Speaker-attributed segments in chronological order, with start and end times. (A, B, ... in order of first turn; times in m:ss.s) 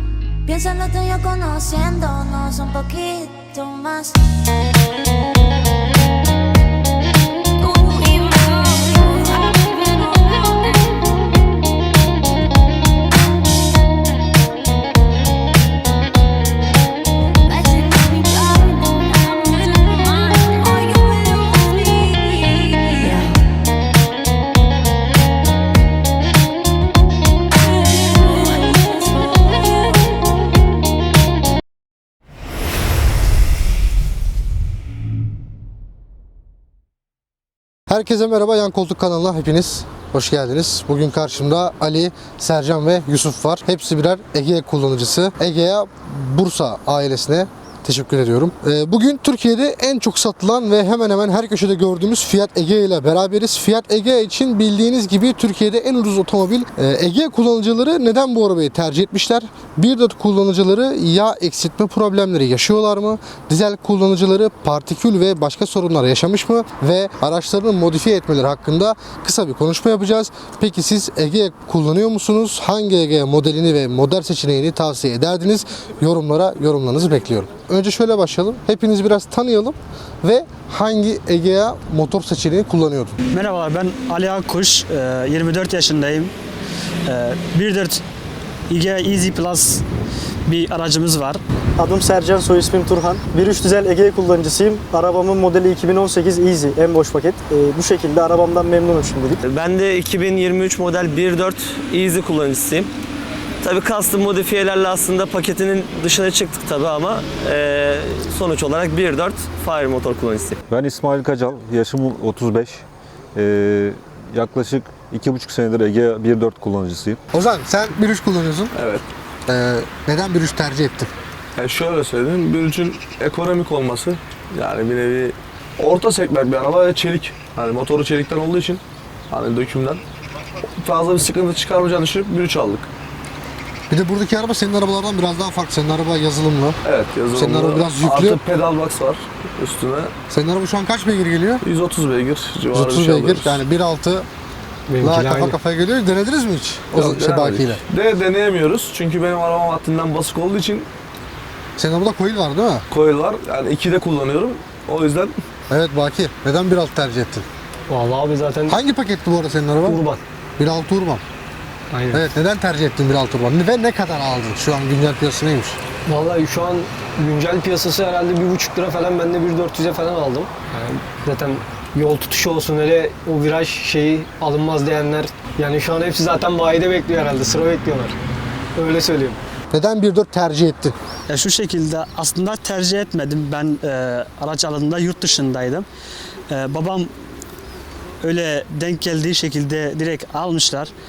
0:00.5-0:04.2 A
0:07.6-0:11.2 A
0:17.4-0:23.4 A
0:27.6-0:30.2 A
0:37.9-1:23.2 B
1:23.3-1:26.3 C
1:27.0-1:28.0 C
1:28.7-1:29.8 C
1:30.5-1:31.4 C
1:31.8-1:39.4 D
1:39.4-1:42.9 E
1:43.6-1:50.6 E
1:50.7-1:52.8 F
1:53.3-1:57.2 F
1:57.3-1:58.7 B
1:58.7-1:59.0 G
1:59.5-2:01.1 B
2:01.6-2:10.0 G
2:10.8-2:12.9 G
2:13.9-2:16.8 B
2:16.8-2:20.1 G
2:17.3-2:18.4 B
2:20.3-2:21.6 B
2:21.6-2:23.6 G
2:22.7-2:24.3 B
2:24.9-2:25.6 H
2:25.0-2:27.8 B
2:26.9-2:30.9 G
2:31.8-2:32.8 B
2:32.9-2:35.3 G
2:35.7-2:37.5 B
2:37.9-2:38.8 H
2:38.7-2:40.0 B
2:39.8-2:40.2 H
2:40.6-2:41.2 B
2:41.9-2:42.3 H
2:42.1-2:45.8 B
2:46.1-2:58.2 H
2:58.8-2:59.4 H
2:59.7-3:01.0 B
3:01.3-3:05.8 C
3:06.5-3:07.1 C
3:08.2-3:10.9 C